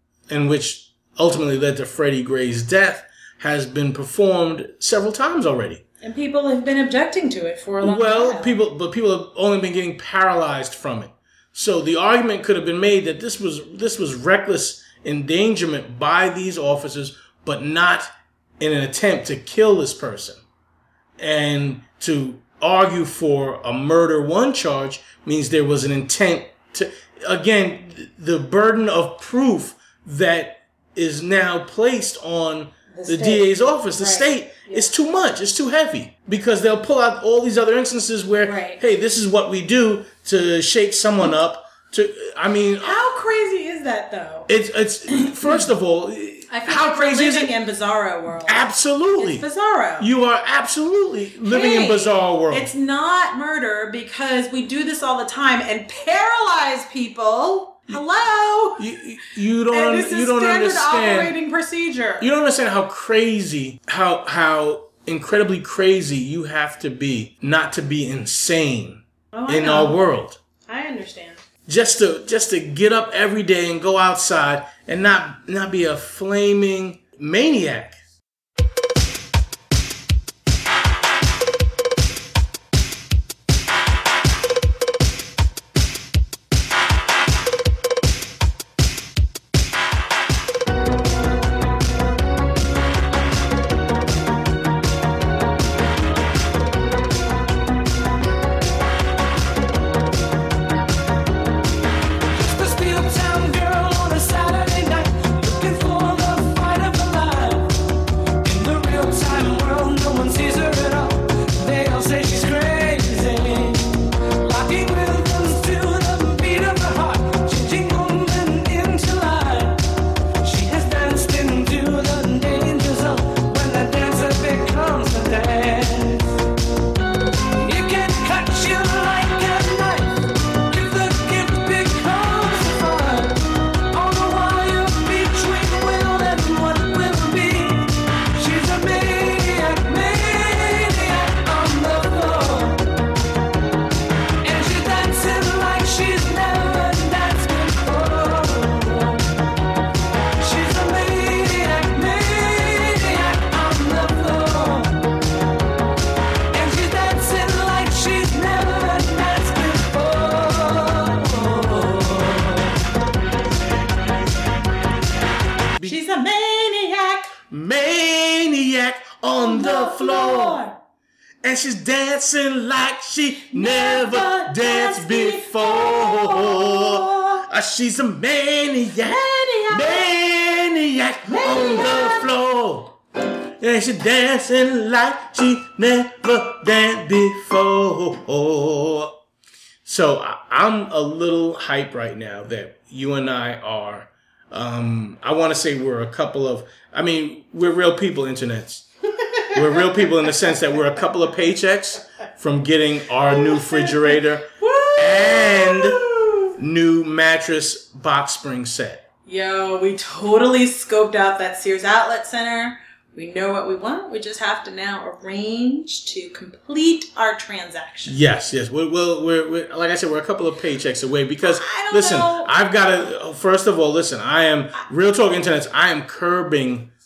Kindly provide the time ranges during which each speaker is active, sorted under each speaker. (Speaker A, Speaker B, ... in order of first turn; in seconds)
Speaker A: 0.3-5.8, 7.8-20.4, 21.2-43.0, 44.5-47.5, 48.5-49.5, 50.0-52.7, 58.8-61.4, 62.2-70.4, 71.7-78.0, 167.5-170.6, 171.4-182.9, 183.6-189.2, 189.8-198.9, 199.5-209.0, 218.1-226.9
Speaker B: 6.0-8.6, 32.9-34.9, 38.4-38.8, 42.8-44.5, 45.1-45.6, 46.5-50.1, 51.5-58.8, 59.7-62.3, 69.3-70.0, 70.7-71.4, 165.8-167.3, 169.3-170.8, 173.5-177.5, 179.0-180.1, 181.3-182.3, 203.3-206.6, 209.3-218.2, 221.4-222.5
Speaker C: 102.3-107.8, 108.4-119.8, 120.4-126.4, 127.6-142.8, 144.4-149.3, 150.4-155.0, 156.5-162.8